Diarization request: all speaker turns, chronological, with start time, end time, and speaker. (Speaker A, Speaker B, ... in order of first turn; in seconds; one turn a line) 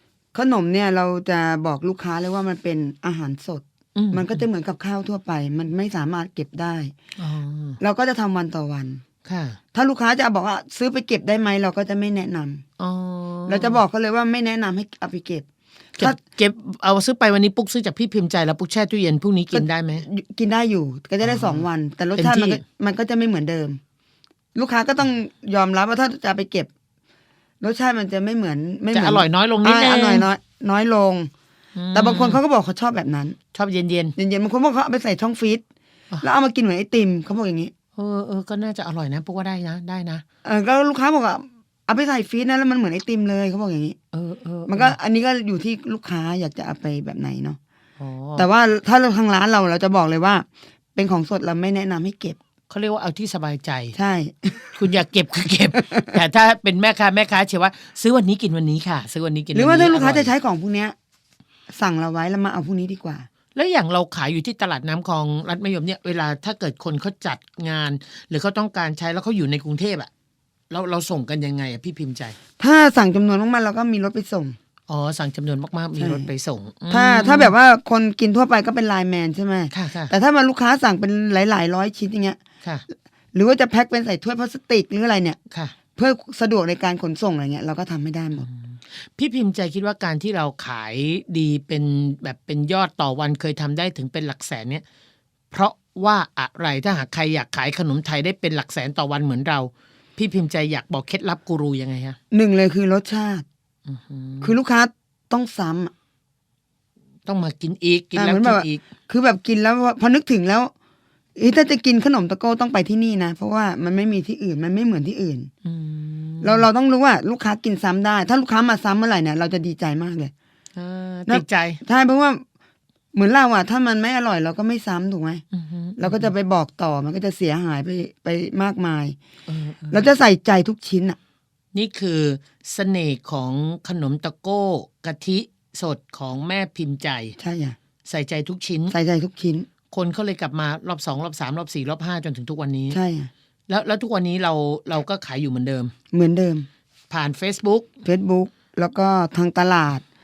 Speaker A: 0.3-6.9
Speaker B: 3.9-4.4
Speaker B: 7.2-7.8
Speaker A: 7.8-9.0
Speaker B: 9.2-9.6
Speaker A: 9.7-12.6
Speaker B: 12.8-13.8
Speaker A: 13.5-15.4
Speaker B: 16.0-20.0
Speaker A: 19.5-23.8
Speaker B: 21.2-22.6
Speaker A: 24.5-26.7
Speaker A: 27.6-31.3
Speaker B: 28.9-30.3
Speaker B: 31.7-32.4
Speaker A: 31.9-33.4
Speaker B: 33.5-34.1
Speaker A: 34.1-35.6
Speaker A: 36.2-37.7
Speaker B: 38.0-40.2
Speaker A: 40.4-44.0
Speaker B: 44.1-45.0
Speaker A: 44.7-47.6
Speaker B: 48.0-48.5
Speaker A: 48.4-52.4
Speaker B: 52.7-54.0
Speaker A: 53.9-54.8
Speaker B: 54.8-60.3
Speaker A: 55.7-56.2
Speaker A: 59.5-60.9
Speaker A: 61.7-63.3
Speaker B: 63.5-70.1
Speaker B: 70.7-72.4
Speaker A: 72.6-74.5
Speaker B: 74.9-77.5
Speaker A: 76.0-76.3
Speaker A: 76.9-82.4
Speaker B: 79.7-80.1
Speaker A: 83.3-85.4
Speaker A: 86.0-88.5
Speaker B: 88.4-94.8
Speaker B: 95.5-102.2
Speaker A: 102.3-103.4
Speaker B: 103.9-104.5
Speaker A: 104.4-105.9
Speaker B: 107.2-108.8
Speaker A: 108.2-110.7
Speaker A: 111.4-115.5
Speaker B: 115.6-116.7
Speaker A: 116.4-120.3
Speaker B: 120.8-121.8
Speaker A: 121.3-122.4
Speaker A: 123.1-125.4
Speaker B: 125.5-126.3
Speaker A: 126.0-129.2
Speaker B: 129.5-130.1
Speaker A: 129.9-131.2
Speaker B: 131.7-137.3
Speaker A: 137.4-137.8
Speaker B: 138.0-138.9
Speaker A: 138.9-139.7
Speaker B: 139.9-143.0
Speaker A: 142.9-143.3
Speaker B: 143.7-145.9
Speaker A: 146.1-146.7
Speaker B: 147.1-147.9
Speaker A: 148.0-150.0